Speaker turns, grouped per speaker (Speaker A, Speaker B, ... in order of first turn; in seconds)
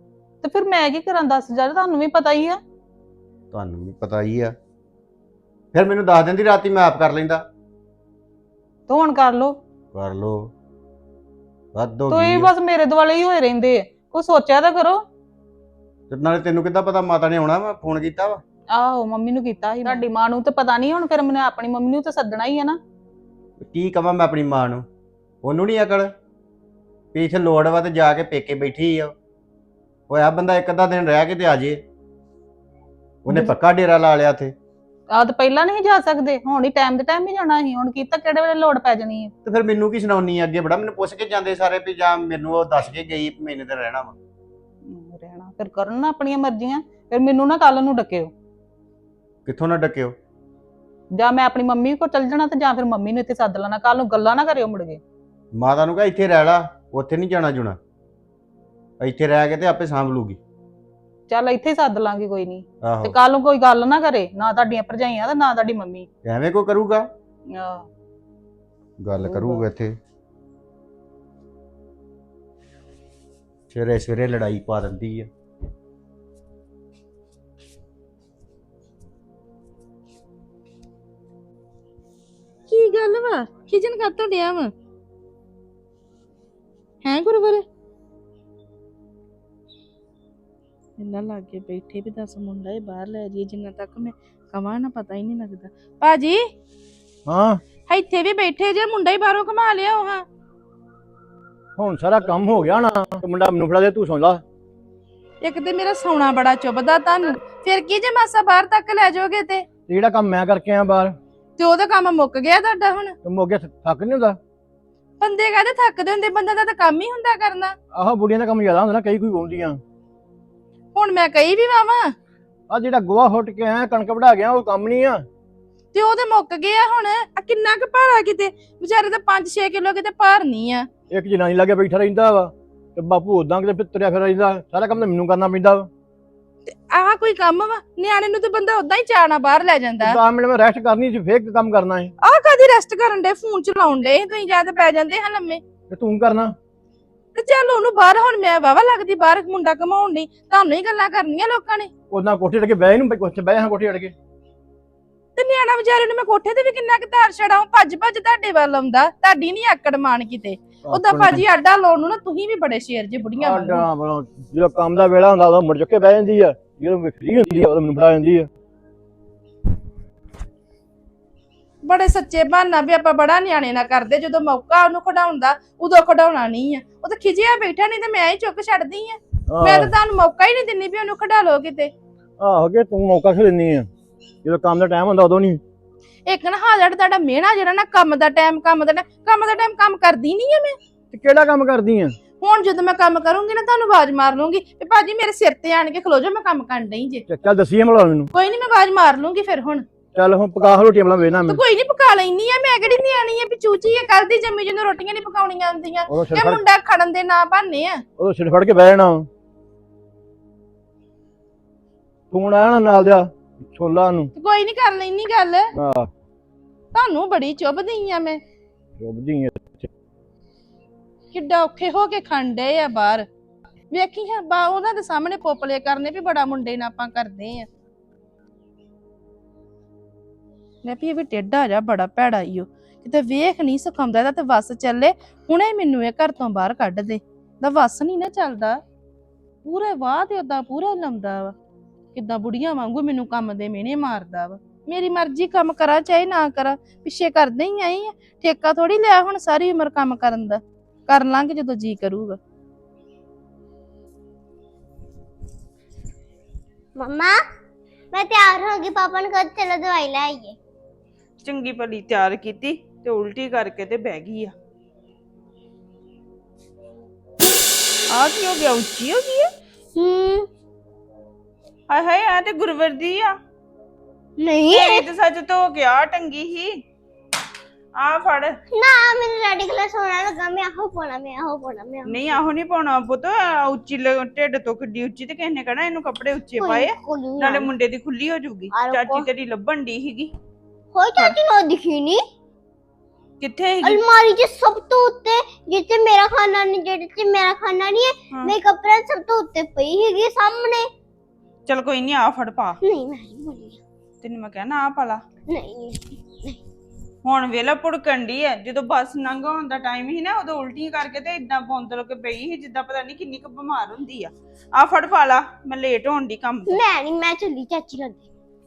Speaker A: 0.4-2.6, 8.9-9.6, 12.1-15.0, 18.7-22.8, 33.3-33.6, 35.1-39.3, 44.9-48.3, 51.1-55.0, 61.3-66.1, 67.5-67.9, 69.3-69.6
Speaker B: 3.5-4.5, 5.7-7.4, 9.9-10.5, 11.8-12.5, 16.1-18.4, 23.6-24.9, 25.4-26.1, 27.1-29.1, 30.1-31.8, 33.2-34.5, 39.4-44.1, 49.5-50.1, 55.5-57.8, 59.0-60.4, 62.8-63.1, 66.2-67.0, 69.0-69.9, 73.7-75.3
Speaker C: 82.7-84.7, 87.1-87.6, 91.0-96.4, 97.9-100.2, 105.5-109.7, 111.6-113.1, 115.2-117.7, 120.9-122.1, 125.9-130.9, 136.7-140.1, 142.2-145.6, 147.4-151.9, 155.4-163.8, 171.9-181.9, 186.3-190.8, 192.4-197.2, 198.3-199.8, 201.5-208.0, 214.4-215.7, 216.9-218.4, 221.3-223.2, 223.9-227.7, 230.9-238.8, 239.7-241.5, 242.1-252.4
Speaker D: 97.3-97.6, 101.8-104.4, 109.9-111.1, 113.2-114.4, 117.9-119.8, 122.7-125.2, 131.1-135.9, 140.0-142.1, 145.9-146.5, 152.1-154.1, 160.8-161.5, 163.3-168.5, 179.5-179.9, 182.4-183.9, 184.4-185.6, 191.1-192.1, 197.3-198.3, 200.1-201.6, 206.1-206.6, 208.2-209.3, 212.3-214.3, 215.8-216.1, 219.0-219.9
Speaker E: 257.0-257.4, 258.1-260.6, 270.0-270.5, 274.4-275.1, 278.7-282.4, 286.6-287.7, 288.7-289.3, 290.9-292.2, 293.8-300.9, 302.8-303.8, 305.5-306.6, 316.7-318.2
Speaker F: 261.4-264.5, 268.1-269.5, 271.9-273.4, 274.7-276.8, 278.0-278.6, 282.1-290.3, 293.4-294.0, 298.3-298.6, 301.6-302.8, 304.2-305.2, 307.2-316.8